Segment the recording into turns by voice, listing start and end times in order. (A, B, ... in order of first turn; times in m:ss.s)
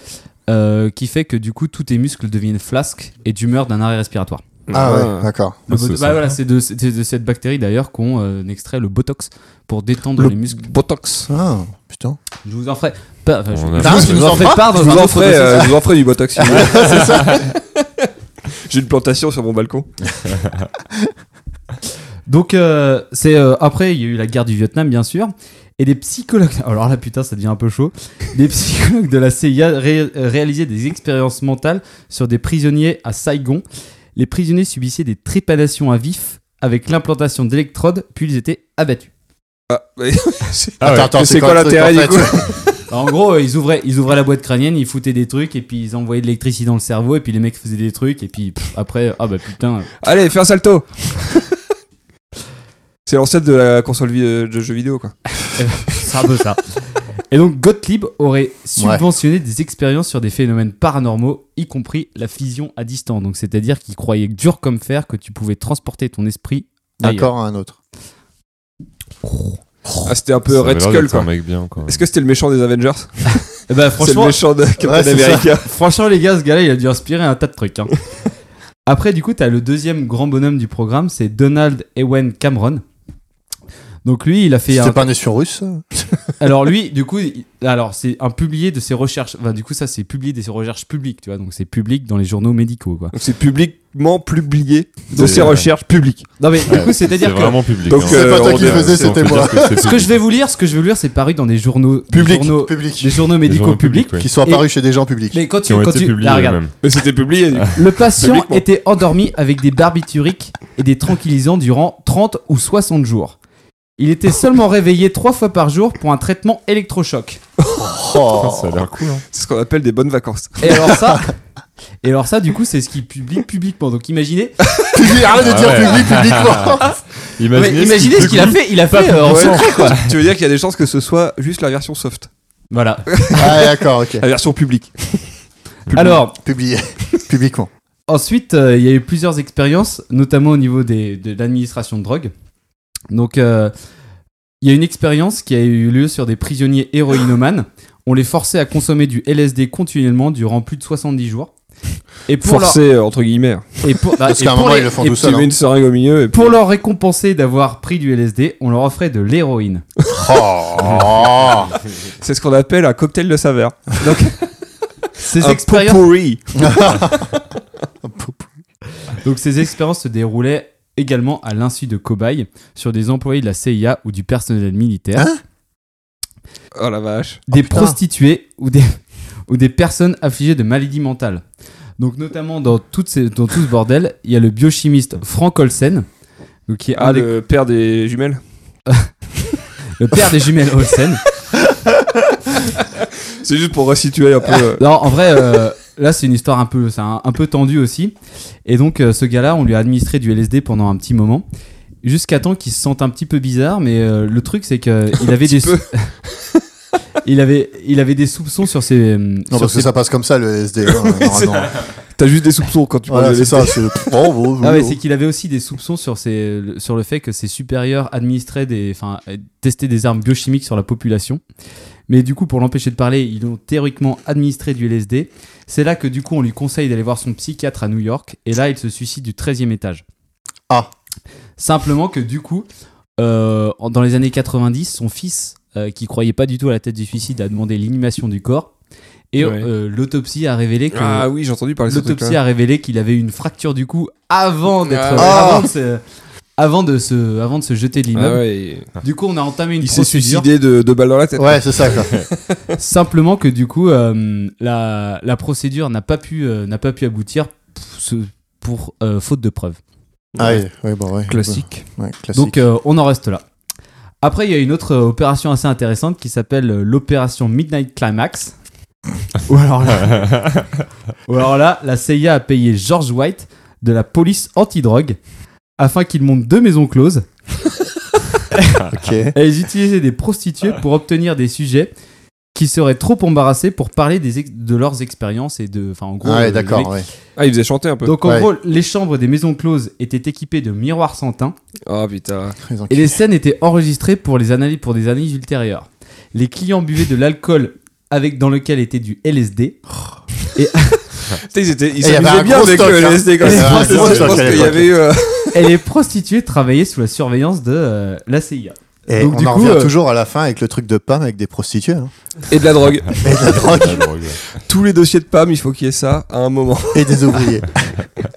0:00.5-0:04.4 A
0:04.7-0:05.3 B
0:04.7-0:05.6 C
0:05.7-0:06.4 D
0:05.7-0:10.7 A
0:10.2-0:11.3 B
0:11.3-0:12.2 C
0:12.4-0:15.8 A
0:13.5-0:14.3 D
0:13.8-0:14.8 C
0:13.8-0:18.1 B
0:16.4-0:17.5 C
0:18.7-0:19.9 B
0:22.3-0:33.6 A
0:34.2-0:39.1 A
0:39.7-0:42.5 B
0:40.8-0:41.2 D
0:40.8-0:42.5 C
0:42.9-0:49.9 A
0:50.0-0:51.6 B
0:53.1-0:55.2 B
0:55.5-0:56.6 A
0:57.3-1:07.3 A
0:58.8-0:59.0 C
1:07.0-1:07.8 C
1:10.0-1:11.3 B
1:10.5-1:12.1 D
1:11.8-1:13.4 B
1:13.7-1:14.4 A
1:14.0-1:15.7 B
1:14.8-1:15.5 C
1:15.6-1:18.0 A
1:18.9-1:22.8 A
1:24.0-1:25.0 A
1:24.7-1:26.3 C
1:26.4-1:33.1 A
1:33.1-1:36.3 B
1:35.1-1:35.5 A
1:35.2-1:35.7 D
1:36.4-1:37.7 A
1:36.7-1:40.2 D
1:37.9-1:39.6 B
1:38.0-1:39.8 C
1:39.8-1:44.7 A
1:42.1-1:42.6 B
1:42.6-1:43.2 C
1:43.4-1:44.3 D
1:44.2-1:45.4 C
1:45.3-1:46.6 A
1:45.7-1:46.8 D
1:46.8-1:48.6 B
1:47.7-1:53.4 A
1:54.0-1:57.4 A
1:57.7-1:58.8 C
1:58.3-1:59.2 D
1:59.3-2:01.0 B
2:00.6-2:01.3 A
2:02.0-2:04.6 A
2:04.9-2:07.0 C
2:05.4-2:06.9 D
2:07.4-2:10.2 D
2:07.5-2:10.0 A
2:08.2-2:08.5 B
2:09.2-2:12.3 B
2:12.7-2:13.1 A
2:13.1-2:15.3 B
2:13.4-2:14.2 C
2:15.9-2:16.4 A
2:16.0-2:17.7 C
2:18.1-2:22.3 A
2:23.1-2:23.7 A
2:24.6-2:31.5 A
2:32.3-2:32.8 A
2:32.4-2:33.8 B
2:33.8-2:35.1 A
2:34.2-2:35.5 C
2:35.0-2:36.6 B
2:36.3-2:39.8 A
2:40.1-2:41.7 C
2:42.2-2:44.0 B
2:44.0-2:44.4 A
2:45.2-2:46.0 A
2:45.4-2:47.2 B
2:46.6-2:47.4 C
2:48.0-2:48.5 C
2:49.1-2:55.3 A
2:56.8-2:57.4 B
2:57.5-3:01.4 A
2:57.5-2:58.0 C
3:02.0-3:06.1 A
3:06.7-3:07.3 A
3:07.0-3:08.4 B
3:10.0-3:11.2 A
3:12.5-3:14.8 B
3:14.8-3:18.1 A
3:18.7-3:21.4 A
3:22.0-3:26.1 A
3:25.4-3:26.6 B
3:27.2-3:29.9 A
3:29.5-3:31.8 C
3:30.8-3:34.1 B
3:33.1-3:35.0 C
3:34.6-3:41.4 A
3:42.1-3:50.0 A
3:51.6-3:52.7 A
3:53.2-3:58.7 A
3:59.3-4:01.3 A
3:59.4-3:59.7 B
4:00.9-4:02.4 B
4:01.9-4:06.0 A
4:04.9-4:05.5 B
4:05.2-4:05.7 C
4:06.6-4:08.4 A
4:08.2-4:08.9 B
4:09.0-4:10.5 A
4:09.8-4:12.6 B
4:11.4-4:12.2 C
4:12.8-4:19.8 A
4:20.4-4:20.6 B
4:20.4-4:22.6 C
4:21.3-4:21.9 B
4:22.3-4:23.4 A
4:24.2-4:28.5 A
4:29.5-4:30.4 A
4:31.3-4:35.2 A
4:35.8-4:37.3 A
4:38.5-4:41.9 A
4:38.9-4:39.4 C
4:42.6-4:46.9 A
4:46.2-4:47.1 C
4:47.4-4:48.2 B
4:48.0-4:51.6 A
4:48.2-4:48.5 C
4:51.9-4:52.6 B
4:52.7-4:53.2 C
4:52.9-4:59.8 A
5:00.5-5:01.1 A
5:01.4-5:05.7 B
5:02.0-5:04.9 C
5:03.4-5:04.6 A
5:03.9-5:04.8 D
5:05.5-5:09.9 A
5:09.1-5:12.1 C
5:12.5-5:14.0 B
5:13.2-5:14.1 C
5:13.2-5:14.4 D
5:14.6-5:17.5 B
5:16.9-5:18.0 C